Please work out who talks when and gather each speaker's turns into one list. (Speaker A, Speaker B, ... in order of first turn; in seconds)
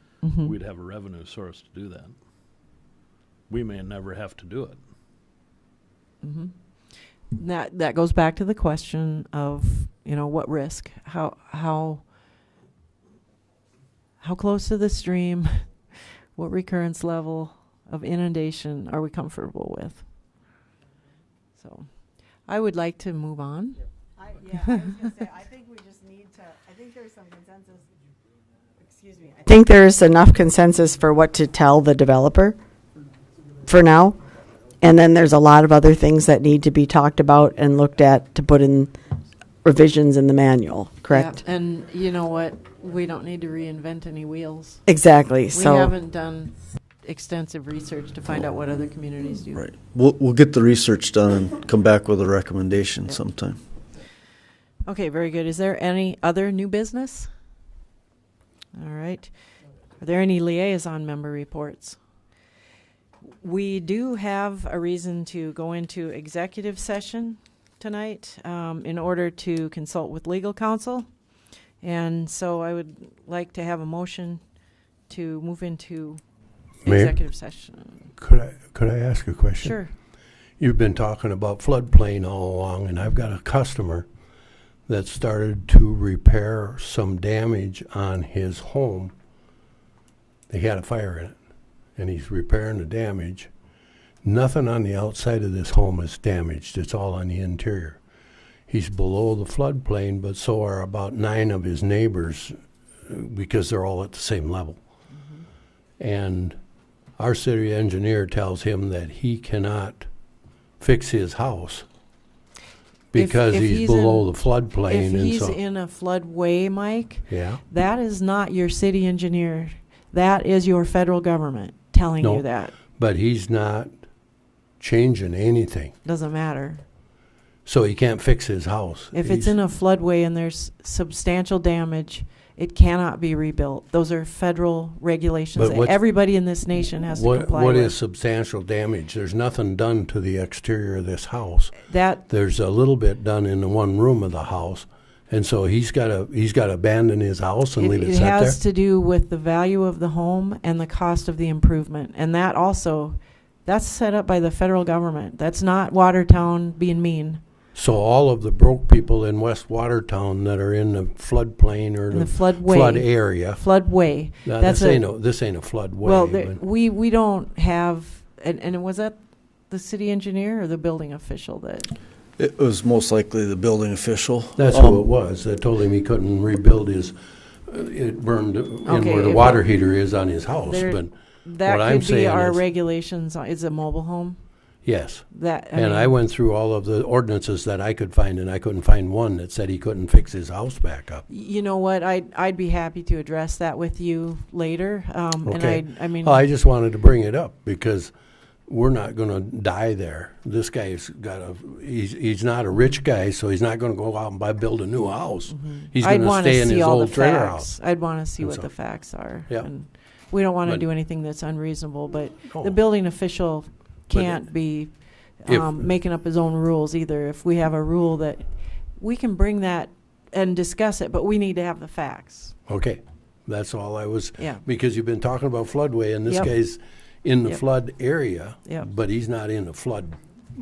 Speaker A: 0.2-0.5, 6.2-12.0, 14.2-15.6, 16.3-20.1, 21.6-21.9, 22.4-23.8, 24.7-25.0, 41.1-44.8, 45.5-49.6, 54.9-57.3, 58.7-59.3, 60.0-62.0, 63.4-71.1, 71.8-74.4, 75.1-76.2, 76.8-78.1, 79.6-79.9, 113.1-122.7, 126.0-126.8, 129.1-137.9, 141.8-142.2, 147.7-157.4, 162.1-171.9, 178.8-179.7, 180.6-184.4, 185.3-186.2, 191.3-196.5, 205.5-222.6, 224.4-224.6, 226.3-226.5
Speaker B: 0.4-2.1, 3.5-4.8
Speaker C: 24.4-27.9, 28.9-29.4
Speaker D: 29.4-32.6, 33.6-34.1, 34.8-38.9, 39.6-41.4, 44.9-45.9
Speaker E: 49.5-53.6, 172.4-175.1
Speaker F: 76.8-77.2, 78.2-79.8, 80.6-84.0, 84.9-89.1, 90.5-91.3, 92.0-93.5, 94.2-98.0, 98.7-102.5, 103.1-104.8, 106.0-106.6, 107.2-110.1, 110.8-111.8, 113.1-115.6, 117.3-117.6, 122.2-123.9, 124.8-125.9, 127.6-129.6, 135.6-136.0, 137.1-148.6, 157.7-166.6, 174.5-177.2, 177.7-181.1, 181.6-182.6, 184.8-191.2, 195.4-198.1, 198.7-207.8, 208.4-209.7, 212.5-212.8, 214.1-214.4, 215.4-215.9, 222.7-230.2